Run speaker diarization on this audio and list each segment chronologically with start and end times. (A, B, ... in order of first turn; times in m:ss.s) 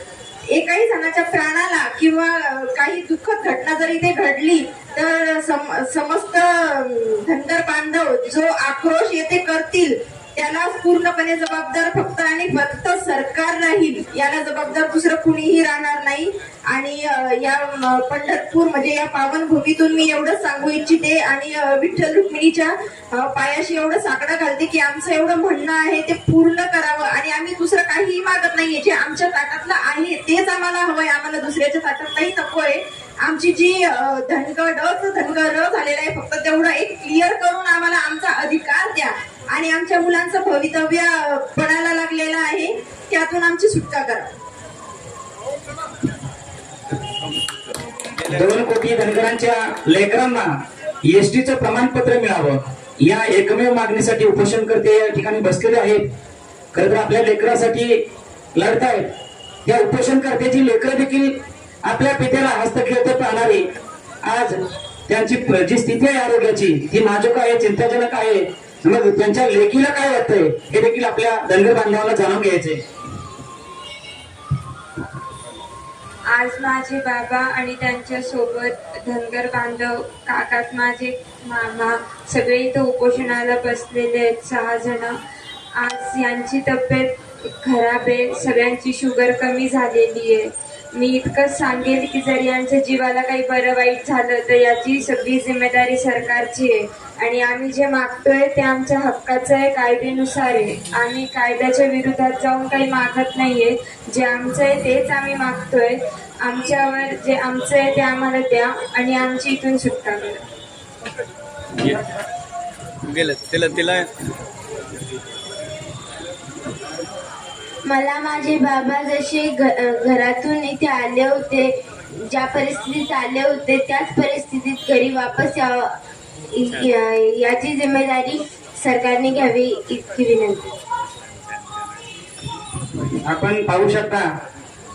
0:00.5-0:44.3 A
0:47.5-0:48.6 B
0:48.2-0:50.5 C
0:51.0-0:56.0 C
0:56.7-0:58.0 C
0:58.6-0:59.1 C
0:59.6-1:03.7 C
1:04.2-1:12.8 C
1:16.3-1:25.2 D
1:25.8-1:50.4 D
1:51.8-1:52.0 B
1:53.0-1:54.1 B
1:57.8-2:06.0 E
2:06.5-2:10.8 E
2:13.2-2:14.3 C